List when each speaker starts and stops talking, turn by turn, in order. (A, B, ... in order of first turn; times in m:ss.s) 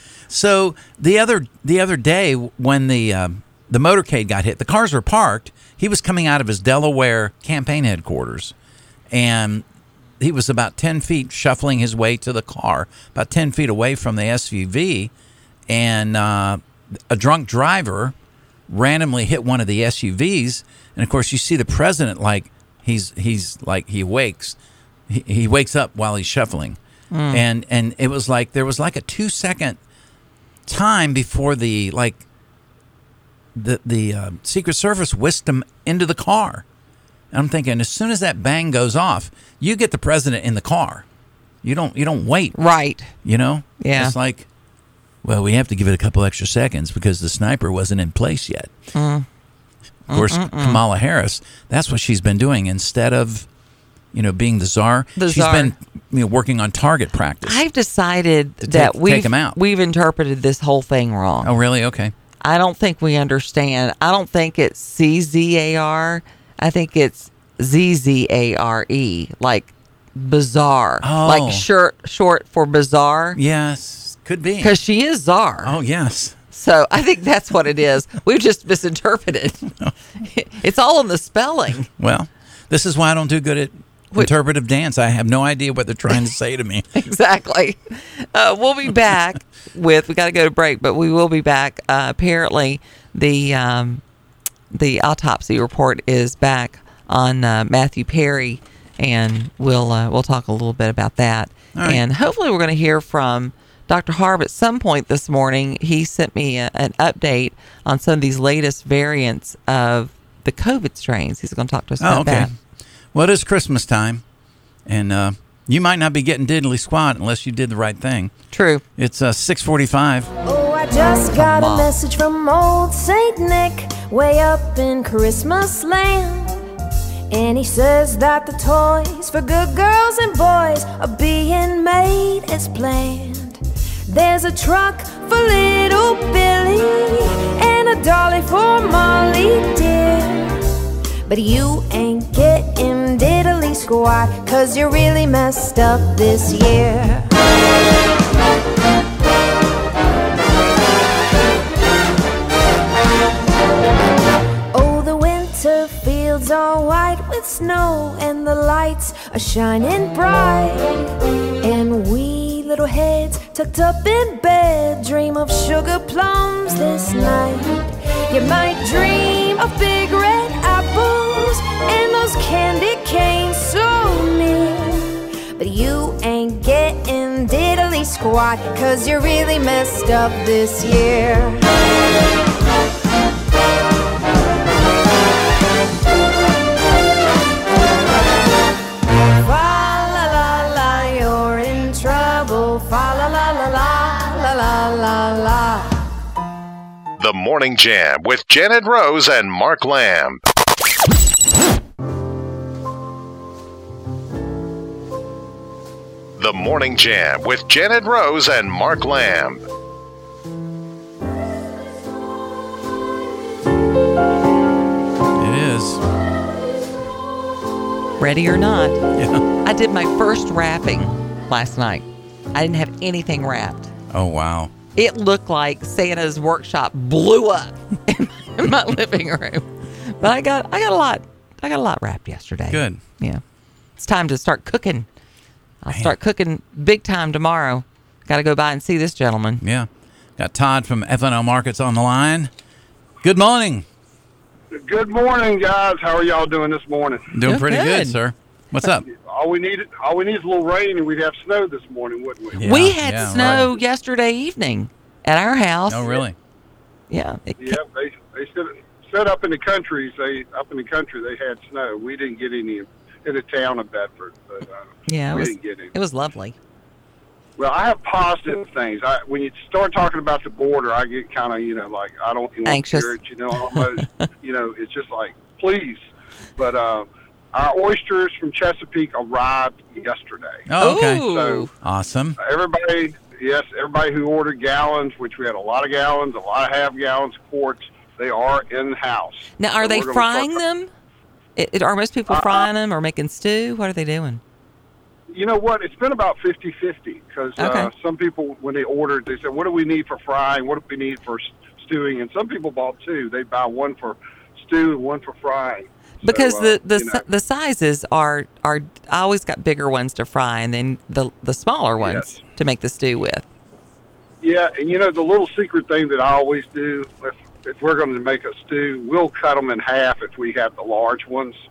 0:00.3-0:08.5 A
0:09.1-0:09.6 A
0:10.2-0:15.1 A
0:15.7-0:18.2 A
0:18.7-0:24.6 A
0:25.1-0:26.8 A
0:27.1-0:27.4 B
0:27.3-0:29.8 A
0:30.7-0:32.2 A
0:33.6-0:36.6 A
0:37.3-0:41.0 A
0:41.6-0:42.6 A
0:42.6-0:43.1 B
0:43.2-0:44.5 A
0:43.8-0:44.2 B
0:45.2-0:48.7 A
0:48.9-0:49.3 B
0:50.1-0:50.8 B
0:50.1-0:53.5 A
0:54.1-0:57.6 A
0:55.2-0:55.7 B
0:57.4-1:01.5 B
0:58.6-0:59.6 A
1:01.4-1:02.1 A
1:02.4-1:13.4 B
1:11.0-1:11.7 A
1:13.4-1:14.8 A
1:14.6-1:15.8 B
1:15.6-1:16.4 A
1:16.5-1:19.7 B
1:20.2-1:21.9 B
1:22.0-1:26.9 A
1:27.0-1:34.0 B
1:34.7-1:52.5 B
1:41.8-1:42.0 A
1:52.0-1:52.5 A
1:53.1-1:54.2 A
1:54.9-1:58.3 A
1:58.5-1:58.8 B
1:59.0-2:00.3 A
2:00.5-2:06.6 C
2:01.3-2:01.9 B
2:07.3-2:20.6 C
2:21.3-2:27.3 C
2:34.7-2:41.1 C
2:41.6-3:01.6 C
3:09.4-3:15.9 C
3:17.2-3:20.4 D
3:26.4-3:29.6 D
3:35.4-3:36.0 A
3:38.2-3:39.0 B
3:39.2-3:39.4 A
3:39.6-3:43.9 B
3:44.1-3:44.7 A
3:45.0-3:49.7 B
3:50.2-3:53.4 B
3:52.7-3:53.0 A
3:54.0-3:55.1 B
3:55.8-3:59.6 B
3:59.6-4:02.5 A
4:03.2-4:03.9 A
4:04.8-4:07.3 E
4:07.3-4:09.0 A
4:07.4-4:08.2 B
4:09.0-4:12.6 E
4:12.5-4:13.7 A
4:12.6-4:16.2 B
4:15.9-4:16.4 A
4:17.1-4:17.8 B
4:17.6-4:25.9 E
4:25.1-4:26.6 B
4:27.6-4:36.0 E
4:32.6-4:33.2 B
4:33.7-4:34.2 B
4:36.6-4:40.6 E
4:40.7-4:42.4 A
4:40.8-4:41.7 B
4:41.2-4:41.7 E
4:42.4-4:50.6 E
4:49.6-4:50.9 B
4:51.6-4:54.4 B
4:52.3-4:52.7 E
4:55.3-5:07.2 E
4:57.6-4:57.9 B
5:06.2-5:13.5 B
5:12.0-5:12.4 E
5:14.4-5:21.6 E